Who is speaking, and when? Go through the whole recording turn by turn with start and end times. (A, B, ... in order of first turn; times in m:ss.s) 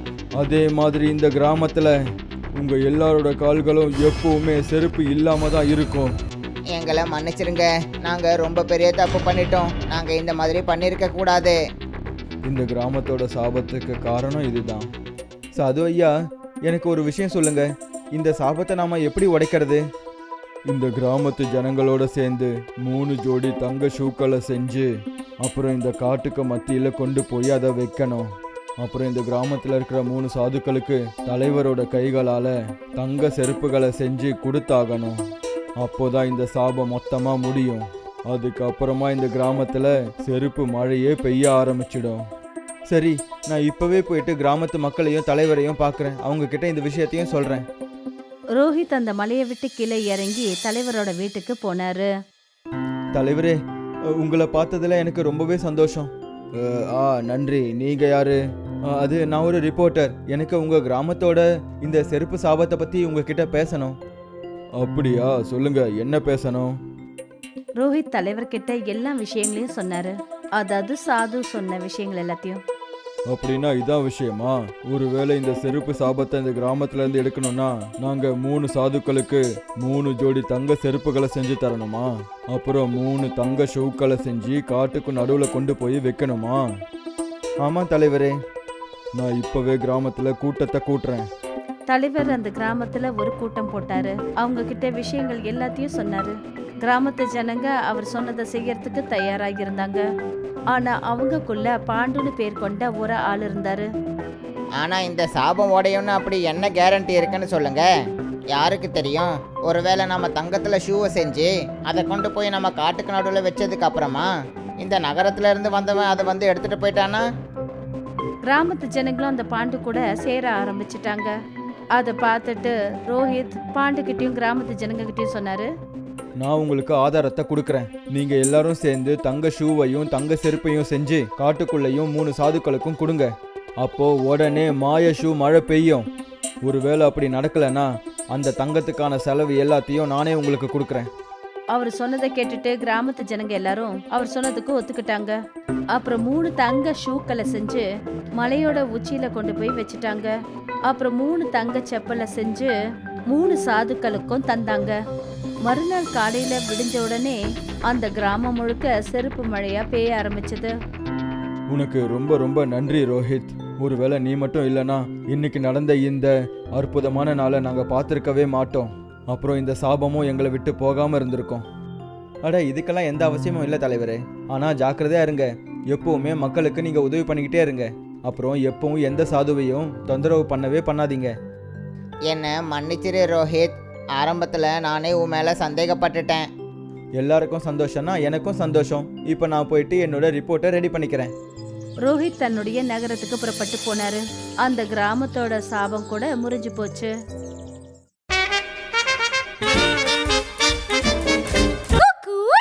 0:00.4-0:02.0 A
0:02.6-0:06.1 A
0:06.7-0:11.6 B
0:12.4-0:14.9 A
0:15.6-0:16.1 A
0:16.7-0:19.8 A
0:20.7-0:24.9 A
0:25.4-0:35.2 A
0:35.8-0:42.2 A
0:42.9-0:47.7 A
0:48.6-0:52.1 C
0:53.1-0:53.6 A
0:54.2-1:04.0 A
1:04.8-1:06.7 A
1:07.8-1:12.6 C
1:13.3-1:26.6 A
1:27.6-1:28.3 A
1:29.2-1:31.3 A
1:31.9-1:40.0 C
1:40.7-1:43.9 C
1:44.8-1:47.9 B
1:48.5-1:54.3 B
1:54.8-1:57.2 B
1:58.5-2:01.3 C
2:02.0-2:05.7 C
2:06.4-2:16.1 A
2:16.6-2:21.1 A
2:21.7-2:25.4 C
2:25.9-2:27.8 C
2:28.4-2:30.3 C
2:30.9-2:32.7 C
2:33.3-2:35.0 C
2:35.7-2:37.4 C
2:37.9-2:40.7 C
2:41.7-2:51.6 A
2:52.4-3:01.3 A
3:02.3-3:06.5 B
3:07.2-3:11.3 A
3:12.1-3:17.1 C